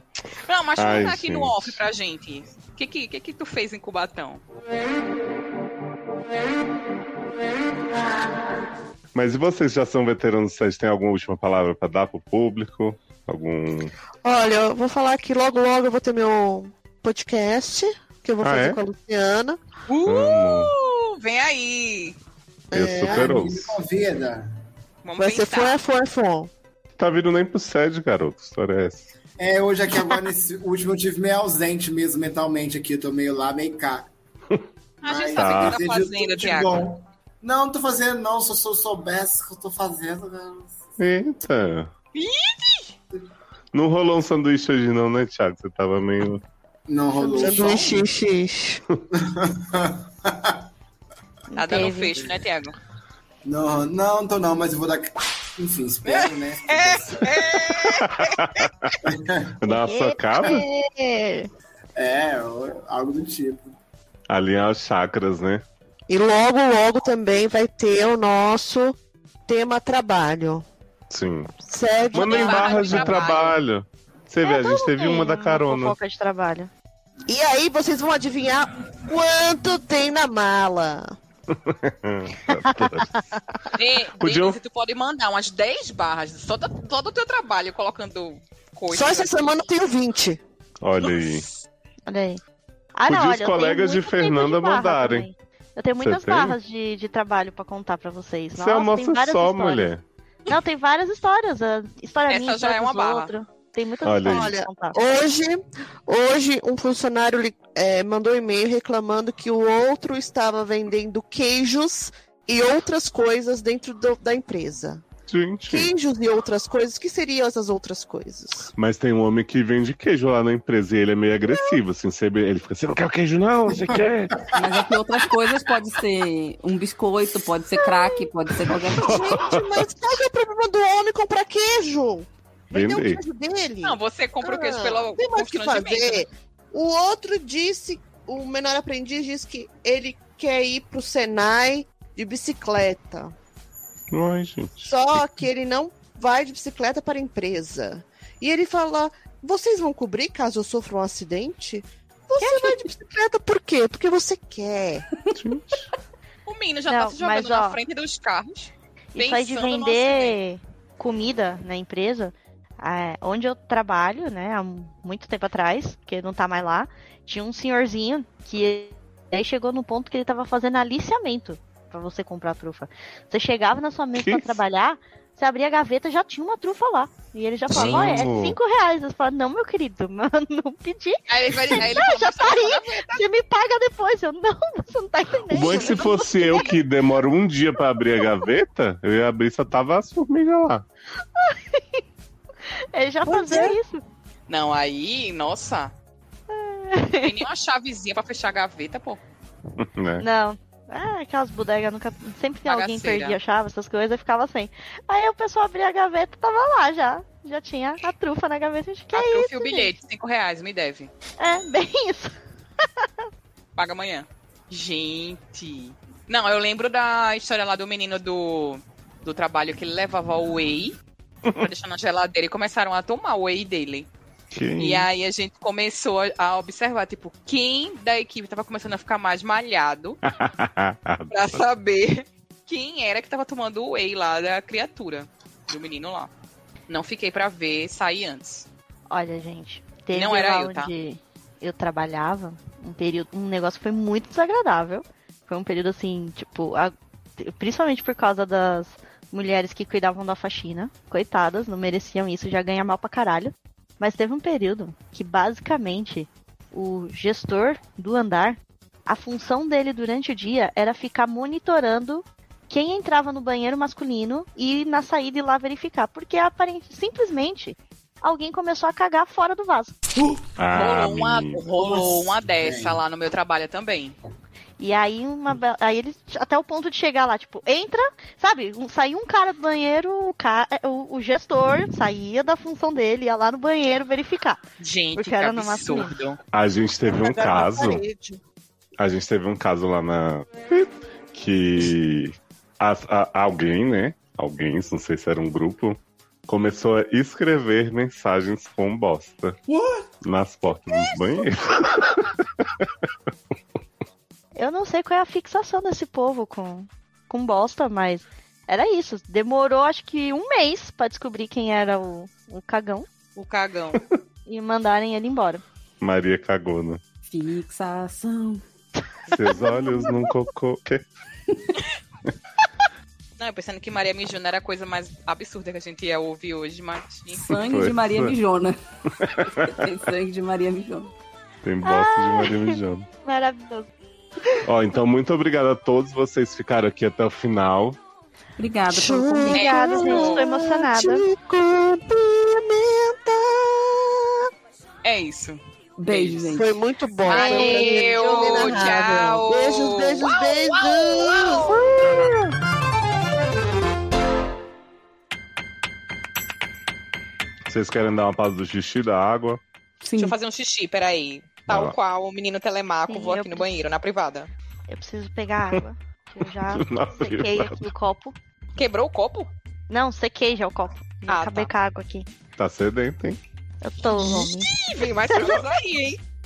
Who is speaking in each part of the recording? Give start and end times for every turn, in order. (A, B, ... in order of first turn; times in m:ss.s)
0:00.5-0:04.4 A
0:00.8-0:01.8 B
0:09.1-0:13.9 B
0:14.2-0:19.6 C
0:18.4-0:18.8 B
0:19.9-0:22.2 A
0:20.0-0:20.7 B
0:22.7-0:23.4 C
0:22.7-0:23.8 B
0:23.0-0:24.5 D
0:25.0-0:25.8 A
0:25.2-0:26.5 C
0:27.0-0:29.1 B
0:29.4-0:34.1 D
0:35.0-0:36.8 A
0:35.0-0:40.7 D
0:35.4-0:35.8 B
0:41.0-0:41.9 B
0:42.1-0:42.9 A
0:43.7-0:46.4 B
0:46.9-0:48.1 D
0:47.2-0:47.7 E
0:47.3-0:48.8 C
0:49.1-0:50.6 D
0:51.5-0:52.1 E
0:51.6-0:52.8 A
0:53.4-0:57.7 D
0:56.0-0:58.4 A
0:57.9-0:58.9 B
0:59.0-0:59.6 D
0:59.6-1:00.6 B
0:59.6-1:01.5 E
1:02.0-1:03.7 D
1:04.3-1:05.6 B
1:06.1-1:10.6 C
1:11.1-1:11.5 B
1:11.6-1:12.9 C
1:12.1-1:16.0 B
1:12.1-1:13.6 A
1:14.4-1:16.7 E
1:17.3-1:21.2 C
1:21.5-1:23.1 B
1:22.5-1:23.2 E
1:23.8-1:29.6 A
1:24.2-1:24.6 B
1:28.9-1:30.4 C
1:30.8-1:31.4 B
1:31.0-1:31.4 A
1:32.1-1:32.4 E
1:32.9-1:39.9 E
1:33.1-1:35.3 B
1:36.0-1:36.6 B
1:38.5-1:40.0 B
1:40.5-1:45.0 E
1:42.3-1:43.3 A
1:44.0-1:44.5 B
1:44.2-1:55.0 C
1:55.3-1:55.9 B
1:55.7-1:58.7 C
1:58.7-2:04.4 B
2:04.5-2:09.3 F
2:08.9-2:23.4 C
2:08.9-2:09.9 B
2:12.7-2:13.2 B
2:13.8-2:16.3 A
2:24.1-2:24.9 B
2:24.8-2:35.1 C
2:32.4-2:32.8 E
2:35.3-2:35.9 B
2:36.4-2:40.4 A
2:36.9-2:37.8 E
2:39.1-3:06.7 E
2:54.1-2:54.6 B
2:57.7-2:58.6 B
2:57.7-2:58.3 A
3:01.3-3:03.2 A
3:05.5-3:10.8 B
3:11.4-3:12.0 E
3:12.9-3:14.0 E
3:13.3-3:13.8 C
3:14.5-3:15.9 A
3:16.5-3:17.4 E
3:17.2-3:19.2 A
3:19.8-3:20.3 B
3:20.2-3:29.9 E
3:22.6-3:23.4 A
3:29.1-3:31.1 A
3:31.4-3:33.2 E
3:33.8-3:41.0 A
3:41.6-3:44.1 A
3:44.5-3:45.1 B
3:44.8-3:50.2 A
3:50.3-3:51.6 B
3:51.3-3:56.3 A
3:56.9-3:58.6 A
3:59.1-4:30.0 E
4:00.1-4:00.9 A
4:30.6-4:31.6 B
4:30.7-4:34.2 A
4:31.8-4:33.0 D
4:34.8-4:44.6 E
4:44.8-4:46.4 A
4:45.2-4:46.1 E
4:46.5-4:48.0 B
4:47.1-4:48.4 C
4:49.0-4:59.6 B
4:59.7-5:00.1 D
5:00.2-5:02.9 B
5:04.6-5:13.1 E
5:13.4-5:14.0 A
5:14.4-5:15.6 E
5:16.0-5:17.0 B
5:17.3-5:18.6 F
5:19.3-5:21.1 B
5:19.5-5:20.1 E
5:23.4-5:27.5 A
5:27.4-5:28.8 F
5:27.5-5:28.4 B
5:29.2-5:29.9 B
5:29.4-5:31.1 F
5:31.6-5:33.1 B
5:31.8-5:33.9 E
5:34.6-5:38.0 B
5:38.6-5:39.8 F
5:38.9-5:44.4 C
5:39.5-5:41.2 E
5:39.5-5:40.5 A
5:45.0-5:46.6 A
5:46.0-5:46.7 F
5:46.6-5:52.3 C
5:47.3-5:52.2 A
5:47.4-5:47.9 F
5:57.7-5:59.6 B
6:00.0-6:00.4 F
6:00.2-6:04.5 A
6:01.7-6:01.9 B
6:03.1-6:03.7 E
6:04.9-6:08.4 E
6:06.7-6:07.9 B
6:08.8-6:09.5 A
6:09.9-6:12.3 E
6:11.3-6:11.7 A
6:12.6-6:13.4 B
6:13.8-6:14.7 E
6:14.1-6:16.2 A
6:15.3-6:15.6 E